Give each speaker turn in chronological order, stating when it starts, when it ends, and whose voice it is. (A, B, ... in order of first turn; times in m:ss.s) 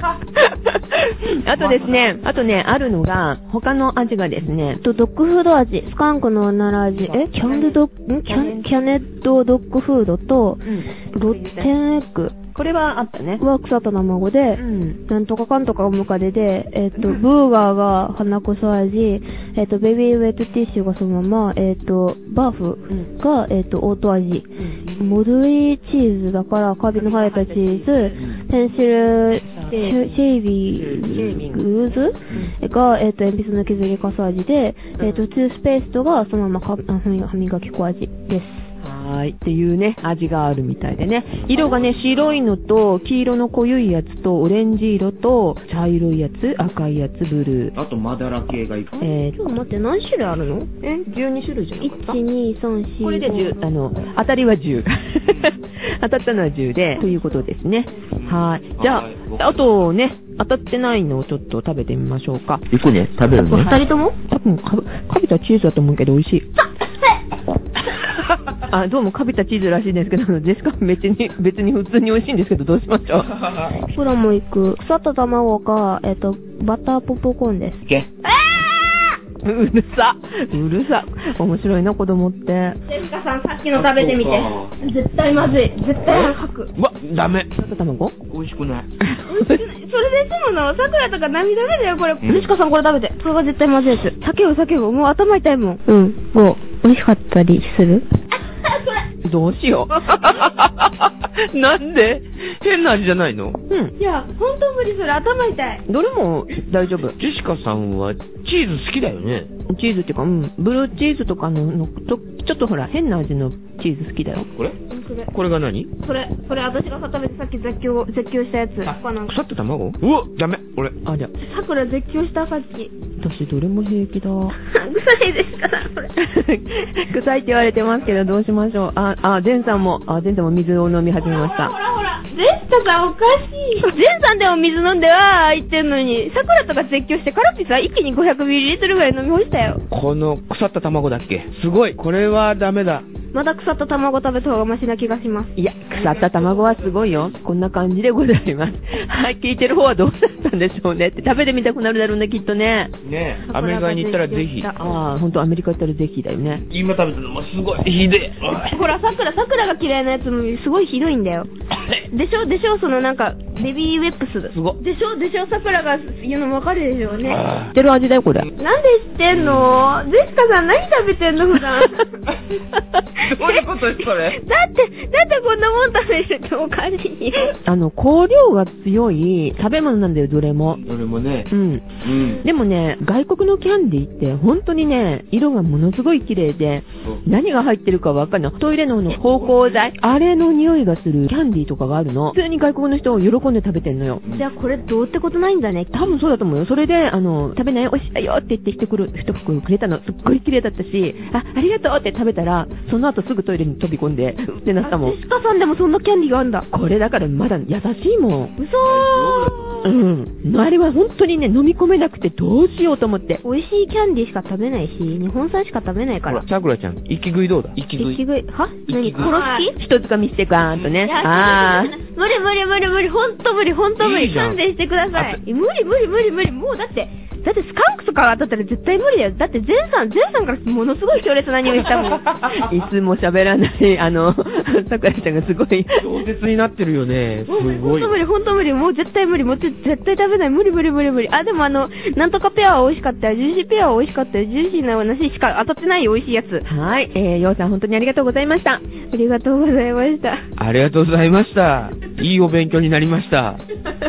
0:00.4-0:04.8 A
0:01.7-0:02.1 B
0:04.8-0:12.4 C
0:07.0-0:08.8 A
0:10.6-0:11.7 A
0:12.5-0:13.4 A
0:13.4-0:38.7 C
0:14.6-0:15.0 A
0:24.6-0:25.2 A
0:27.0-0:28.3 A
0:29.5-0:30.2 A
0:30.7-0:31.7 A
0:35.0-0:35.2 A
0:38.8-0:47.7 A
0:41.5-0:42.4 B
0:47.8-0:49.0 B
0:49.0-0:49.4 A
0:49.0-0:51.0 C
0:50.8-0:52.2 A
0:51.8-0:53.6 C
0:53.0-1:02.6 A
0:55.2-0:55.5 B
0:57.0-0:57.4 C
0:58.2-0:59.7 B
1:02.7-1:03.8 B
1:03.4-1:04.2 C
1:04.2-1:06.5 A
1:08.7-1:13.3 A
1:13.4-1:13.7 B
1:13.8-1:19.2 C
1:19.4-1:22.8 A
1:22.9-1:26.7 C
1:23.8-1:24.7 B
1:26.0-1:27.5 B
1:27.6-1:28.2 A
1:28.3-1:28.9 B
1:29.0-1:29.6 A
1:29.2-1:39.0 C
1:32.2-1:32.5 B
1:39.2-1:40.0 A
1:40.0-1:43.6 B
1:44.0-1:45.8 C
1:45.9-1:47.2 A
1:47.2-1:49.5 B
1:49.7-1:54.5 A
1:54.9-1:55.3 C
1:55.3-1:55.9 B
1:56.0-1:59.4 C
1:58.9-2:01.0 B
2:01.0-2:01.3 A
2:01.4-2:02.9 C
2:03.2-2:04.6 A
2:04.6-2:06.1 C
2:06.2-2:11.8 A
2:11.2-2:19.8 C
2:19.9-2:23.1 B
2:23.3-2:25.5 C
2:25.6-2:32.9 A
2:25.9-2:27.3 B
2:33.0-2:34.7 B
2:33.4-2:35.0 C
2:34.8-2:36.6 A
2:36.6-2:38.8 B
2:38.5-2:41.5 C
2:42.1-2:47.4 C
2:44.5-2:44.8 B
2:47.2-2:47.7 B
2:47.7-2:48.5 A
2:48.6-2:52.2 C
2:49.3-2:49.8 B
2:53.2-2:54.4 B
2:53.2-2:57.6 C
2:57.6-3:00.8 A
3:00.8-3:01.5 B
3:01.5-3:01.8 A
3:02.0-3:02.4 B
3:02.4-3:14.2 A
3:09.2-3:09.6 B
3:14.3-3:16.0 C
3:15.9-3:25.2 A
3:24.8-3:26.7 C
3:26.7-3:28.5 A
3:28.6-3:29.9 C
3:28.8-3:29.8 B
3:29.8-3:33.4 A
3:33.4-3:36.4 C
3:36.3-3:38.2 B
3:38.0-3:39.7 C
3:38.9-3:39.4 B
3:39.2-3:42.0 A
3:41.0-3:52.3 C
3:44.0-3:44.6 B
3:45.1-3:45.4 B
3:52.2-3:52.6 B
3:52.5-3:56.0 A
3:56.0-3:58.2 B
3:57.5-4:06.6 C
4:06.7-4:08.8 A
4:09.1-4:10.4 C
4:10.6-4:13.6 B